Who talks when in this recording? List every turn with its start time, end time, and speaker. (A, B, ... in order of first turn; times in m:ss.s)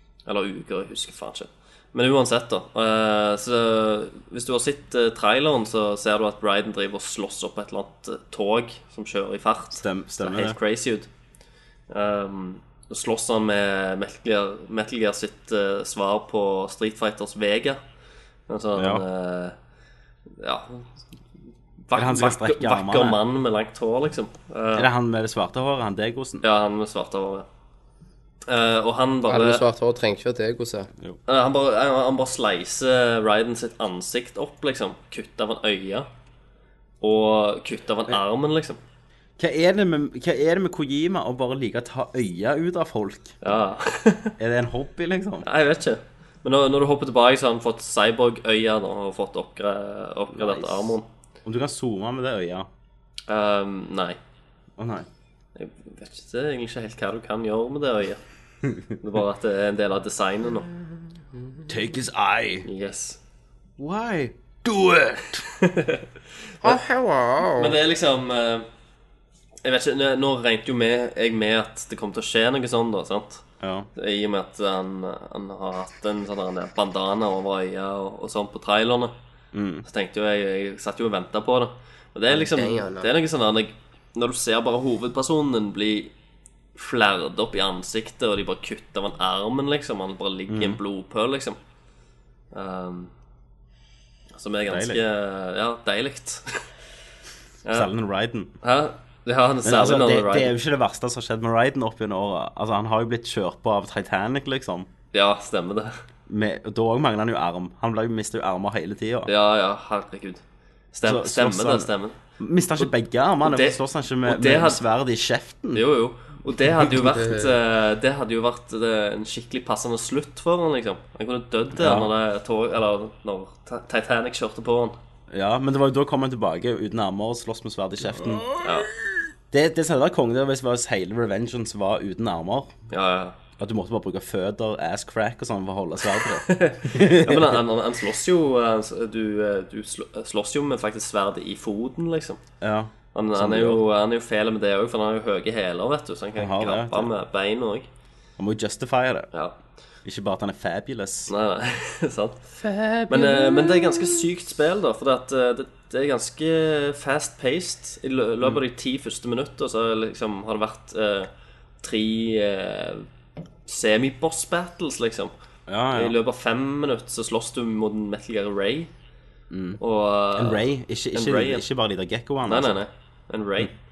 0:00.3-0:11.1 A
0:09.8-0:10.6 B
0:11.9-0:17.8 A
0:18.5-0:19.6 A
0:18.8-0:19.0 B
0:20.4-0:20.8 A
0:21.9-0:24.9 A
0:22.0-0:23.2 B
0:24.8-0:26.4 B
0:26.4-0:27.5 A
0:28.5-0:29.6 A
0:29.3-0:30.9 C
0:31.3-0:36.1 A
0:37.0-0:38.8 A
0:39.4-0:43.4 B
0:43.4-0:44.3 A
0:44.4-0:45.5 B
0:45.4-0:51.1 A
0:50.3-0:52.7 B
0:53.3-0:54.2 A
0:54.8-0:55.1 B
0:55.6-0:58.2 A
0:59.0-1:00.7 A
1:01.7-1:02.7 B
1:02.6-1:03.2 A
1:03.8-1:05.4 B
1:05.6-1:06.0 A
1:06.6-1:07.7 C
1:07.4-1:08.7 A
1:09.6-1:13.4 A
1:13.6-1:13.9 B
1:14.0-1:19.2 A
1:19.5-1:19.8 B
1:19.8-1:26.1 A
1:22.3-1:23.1 C
1:26.8-1:31.6 A
1:30.5-1:30.8 B
1:32.5-1:33.1 A
1:34.3-1:36.7 A
1:34.7-1:35.0 B
1:37.7-1:38.5 B
1:38.6-1:40.5 A
1:39.6-1:44.9 B
1:45.1-1:46.0 A
1:46.3-1:49.3 B
1:49.3-1:50.4 A
1:50.9-1:52.2 A
1:51.0-1:55.8 B
1:53.4-1:54.8 A
1:55.7-2:05.0 A
1:56.9-1:57.6 C
2:01.8-2:02.1 B
2:05.3-2:08.5 B
2:08.6-2:08.9 A
2:09.5-2:12.7 B
2:12.9-2:13.4 A
2:13.6-2:17.6 B
2:16.5-2:22.4 A
2:22.6-2:23.8 B
2:23.1-2:27.9 A
2:26.4-2:27.1 B
2:28.4-2:29.3 B
2:30.0-2:31.3 B
2:31.3-2:32.5 A
2:32.6-2:34.1 C
2:33.1-2:41.3 A
2:41.8-2:43.1 A
2:43.7-2:45.3 A
2:45.7-2:46.2 B
2:45.9-2:48.9 A
2:49.5-2:49.8 B
2:49.8-2:50.6 A
2:50.4-2:52.8 B
2:51.1-2:51.6 A
2:52.5-2:53.7 A